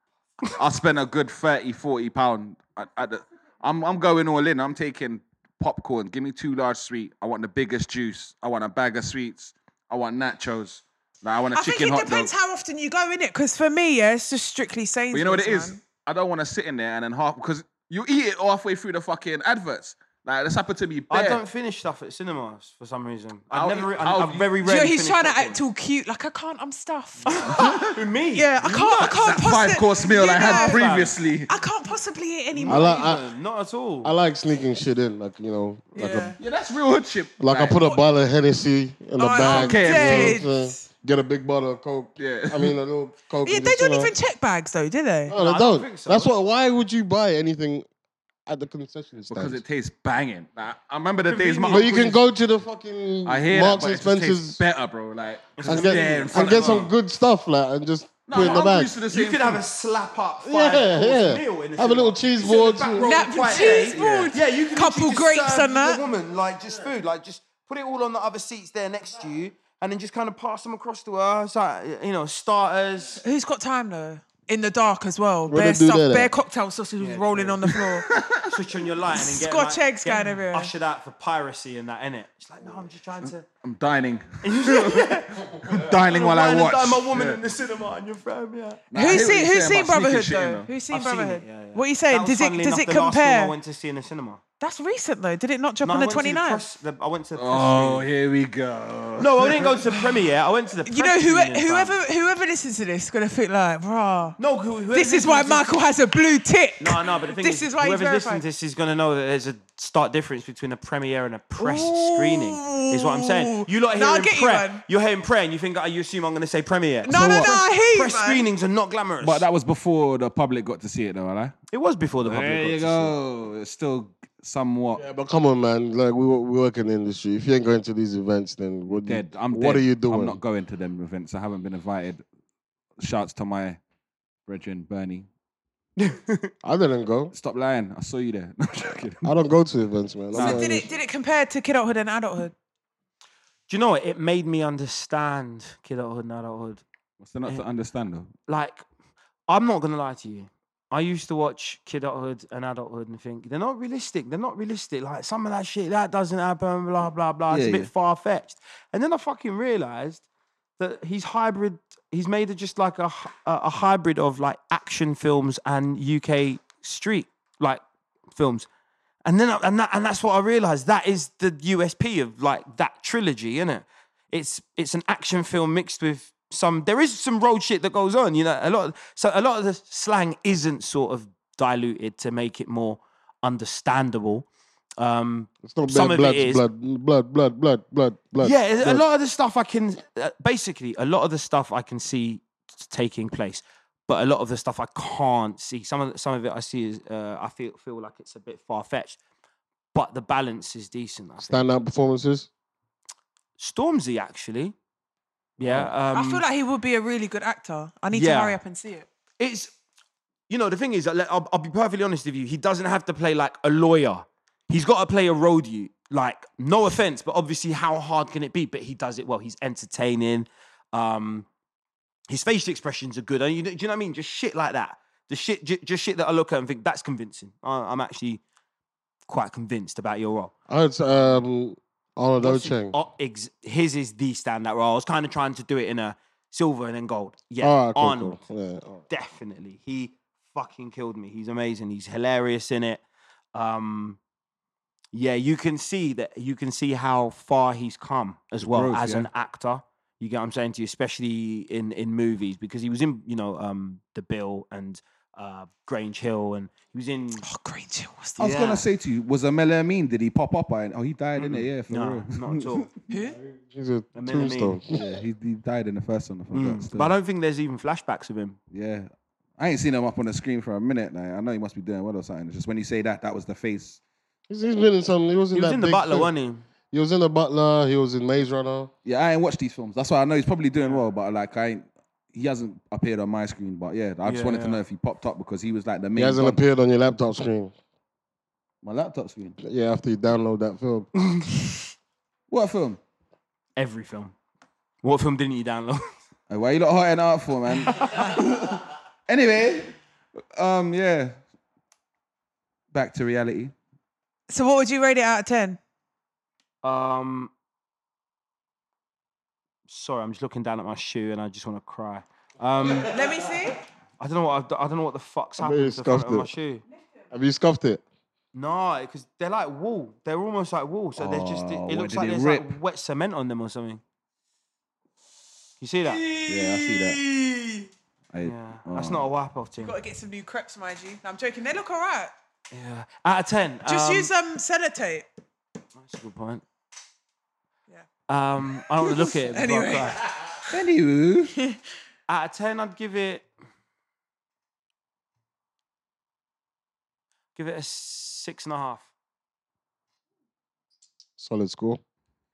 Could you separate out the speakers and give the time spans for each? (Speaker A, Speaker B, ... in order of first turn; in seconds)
Speaker A: 0.5-12.3, 15.1-21.4, 23.5-24.6, 27.5-27.9, 28.6-31.5, 36.4-37.7, 39.4-40.4, 42.2-42.8, 49.3-52.1, 53.2-56.9, 58.3-59.6, 63.5-64.3, 77.7-78.5, 83.6-87.4, 88.9-90.7, 97.4-100.1, 117.1-117.5, 119.2-121.5, 122.2-125.0, 128.9-132.2, 133.0-133.8, 134.5-135.3, 137.3-139.3, 140.3-140.8, 147.2-148.3, 157.5-157.9, 248.6-249.3, 258.4-262.9, 264.9-267.1, 268.7-274.0, 279.1-286.6, 288.8-289.6, 292.5-293.0, 296.5-299.9, 300.6-301.4, 302.9-303.7, 321.2-322.7, 326.4-327.2, 328.3-329.2, 340.7-341.5
Speaker B: 11.5-15.8, 24.6-27.4, 28.3-30.8, 31.5-33.2, 36.0-36.4, 39.2-40.9, 43.5-45.3, 63.0-66.0, 73.2-78.1, 79.1-80.7, 88.9-93.5, 94.6-96.6, 100.8-104.4, 104.9-108.4, 111.6-114.8, 117.0-118.5, 140.4-142.5, 206.1-209.1, 257.4-258.6, 263.1-263.4, 304.5-305.8, 313.0-313.8, 329.8-332.3, 333.9-335.3, 339.0-340.7
Speaker C: 21.1-25.6, 27.2-28.5, 30.3-31.2, 32.5-34.1, 45.3-46.3, 51.3-52.1, 55.6-56.9, 59.1-73.2, 77.0-77.8, 78.5-83.5, 84.4-88.8, 90.9-94.4, 95.8-98.1, 99.2-102.0, 104.4-105.8, 106.8-119.5, 121.7-123.1, 136.0-136.5, 143.7-146.8, 148.5-148.8, 149.5-160.2, 160.8-168.7, 169.2-184.5, 185.0-186.6, 188.4-199.2, 199.9-201.7, 203.6-204.8, 205.6-206.4, 208.1-208.6, 209.4-209.7, 210.5-221.5, 222.3-228.4, 229.3-230.5, 232.4-238.4, 239.1-243.0, 243.6-244.2, 245.1-257.4, 258.4-258.8, 261.4-262.9, 264.1-264.8, 266.5-268.6, 275.5-276.7, 280.8-281.1, 284.2-284.8, 293.8-294.3, 295.0-296.1, 298.0-298.3, 306.8-307.5, 309.9-313.1, 314.2-316.8, 318.5-324.0, 325.8-327.9, 328.4-329.9, 332.7-334.3, 336.0-336.6, 338.3-340.3, 342.3-343.5, 347.6-349.1
Speaker D: 32.7-33.2, 34.0-36.4, 37.4-44.1, 45.3-47.9, 48.5-49.6, 51.7-54.6, 55.7-58.9, 60.4-63.1, 75.5-76.3, 125.0-130.4, 136.6-137.3, 139.2-140.9, 185.7-189.0, 201.4-202.5, 205.6-205.9, 230.7-233.0, 237.6-239.0, 263.5-265.0, 274.5-276.3, 276.9-278.9, 286.1-287.7, 289.6-291.1, 315.6-316.5, 317.3-318.0, 351.4-352.0